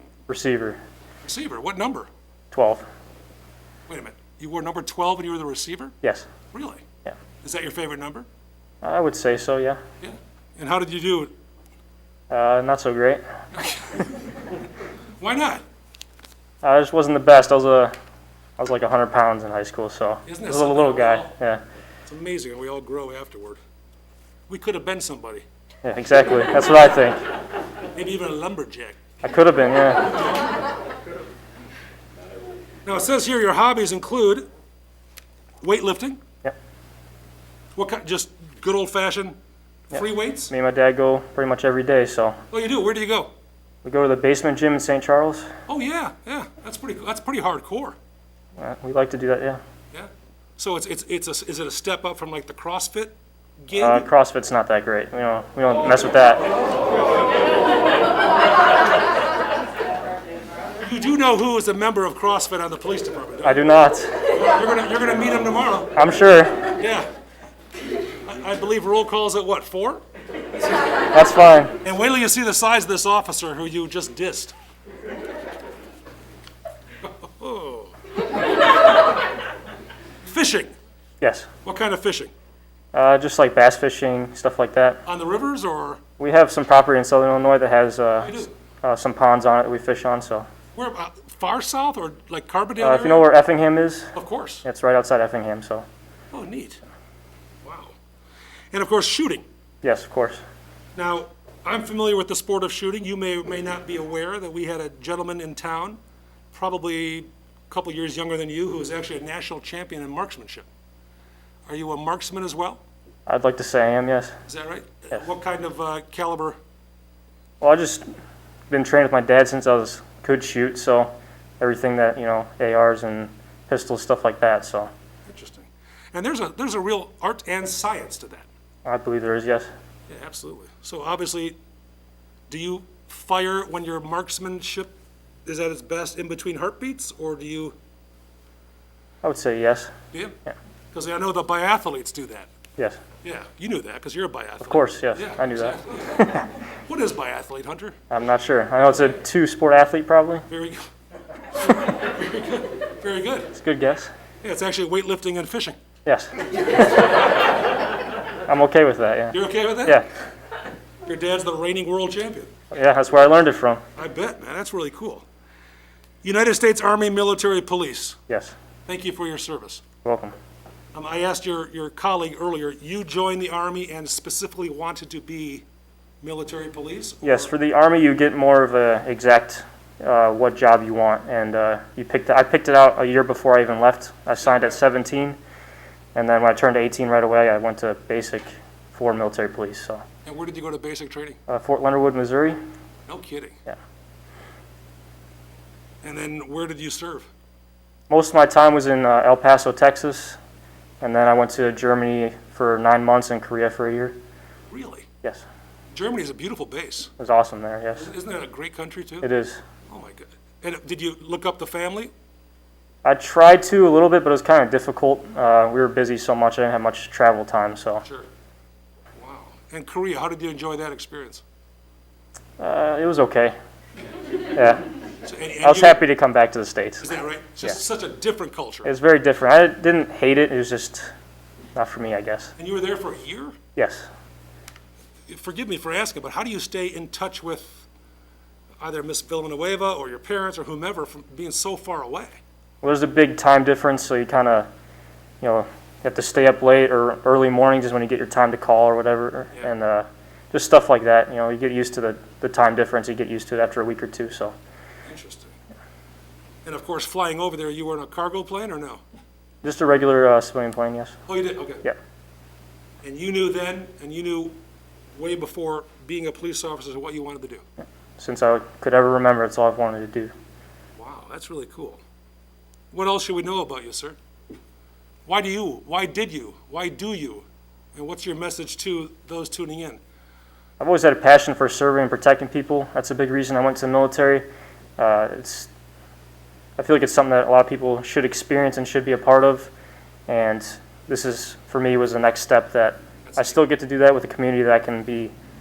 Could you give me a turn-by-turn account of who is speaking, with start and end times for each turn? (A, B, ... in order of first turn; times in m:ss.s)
0:00.3-0:00.8 A
0:01.2-0:02.1 B
0:02.5-0:02.8 A
0:03.9-0:06.0 B
0:06.0-0:06.3 A
0:06.5-0:06.8 B
0:07.4-0:08.2 B
0:08.8-0:09.8 A
0:10.0-0:11.3 B
0:12.3-0:13.2 A
0:13.5-0:14.4 B
0:15.2-0:15.6 B
0:16.6-0:17.9 A
0:18.6-0:21.6 A
0:20.2-0:21.3 B
0:22.1-0:23.6 B
0:24.5-0:25.4 B
0:25.8-0:27.2 A
0:27.9-0:29.0 B
0:29.2-0:30.2 A
0:32.8-0:34.4 B
0:35.6-0:36.2 B
0:37.8-0:39.4 B
0:39.9-0:40.5 B
0:39.9-0:42.4 A
0:42.5-0:43.3 B
0:43.8-0:45.4 A
0:45.7-0:48.0 B
0:48.6-0:49.6 A
0:49.9-0:54.1 B
0:53.7-0:56.5 A
1:00.8-1:03.6 B
1:03.4-1:04.3 A
1:04.3-1:05.9 B
1:05.9-1:06.7 A
1:06.8-1:07.1 B
1:08.2-1:10.0 B
1:11.1-1:11.8 A
1:11.8-1:14.6 B
1:17.0-1:17.9 B
1:20.2-1:20.7 B
1:21.2-1:21.5 A
1:21.6-1:22.3 B
1:22.9-1:25.0 A
1:25.0-1:26.0 B
1:26.2-1:30.5 A
1:28.2-1:28.5 B
1:30.7-1:33.3 B
1:32.8-1:35.8 A
1:34.1-1:34.6 B
1:36.3-1:36.8 B
1:37.6-1:38.0 B
1:38.7-1:39.4 B
1:39.8-1:40.4 A
1:41.0-1:46.0 B
1:46.5-1:50.7 B
1:51.7-1:52.8 B
1:53.3-1:54.3 A
1:54.5-1:56.6 B
1:57.6-1:58.0 A
1:58.7-2:04.9 A
2:05.2-2:08.5 B
2:08.8-2:09.7 A
2:10.1-2:11.6 B
2:12.5-2:14.9 B
2:15.4-2:17.8 B
2:19.2-2:19.9 A
2:20.1-2:20.4 B
2:20.9-2:22.5 B
2:23.2-2:26.3 B
2:24.6-2:26.5 A
2:26.8-2:28.0 B
2:28.1-2:30.5 A
2:30.5-2:30.9 B
2:31.5-2:33.5 B
2:33.5-2:34.1 A
2:34.4-2:35.8 B
2:36.0-2:37.3 A
2:38.5-2:40.1 A
2:39.3-2:40.0 B
2:41.0-2:42.5 B
2:42.7-2:43.8 A
2:44.0-2:45.2 B
2:46.2-2:48.2 B
2:48.3-2:48.5 A
2:48.9-2:49.8 B
2:50.0-2:50.3 A
2:50.9-2:55.6 B
2:56.2-2:57.5 B
2:57.2-3:05.4 A
3:06.1-3:10.0 A
3:10.2-3:11.4 B
3:11.5-3:12.6 A
3:13.1-3:13.6 B
3:16.0-3:17.3 B
3:18.1-3:20.4 A
3:21.0-3:24.2 A
3:24.7-3:25.0 B
3:25.9-3:27.1 B
3:27.2-3:28.1 A
3:28.0-3:29.3 B
3:29.2-3:29.6 A
3:29.9-3:32.1 B
3:33.0-3:38.0 A
3:39.2-3:41.4 B
3:42.6-3:43.6 A
3:44.5-3:44.8 A
3:45.2-3:46.0 B
3:45.6-3:47.8 A
3:47.0-3:48.9 B
3:48.8-3:51.1 A
3:51.7-3:52.5 A
3:52.6-3:53.5 B
3:53.8-3:54.1 A
3:55.3-3:57.8 B
3:58.8-4:02.4 B
4:02.8-4:04.7 A
4:05.4-4:14.5 A
4:15.1-4:15.5 B
4:16.6-4:19.0 B
4:19.6-4:21.2 A
4:21.3-4:21.8 B
4:23.0-4:24.6 B
4:25.1-4:27.6 B
4:28.2-4:30.3 A
4:31.0-4:32.0 B
4:32.9-4:34.2 B
4:35.2-4:40.0 B
4:40.8-4:44.4 A
4:45.0-4:45.7 A
4:46.8-4:49.7 A
4:50.3-4:55.3 A
4:53.2-4:53.6 B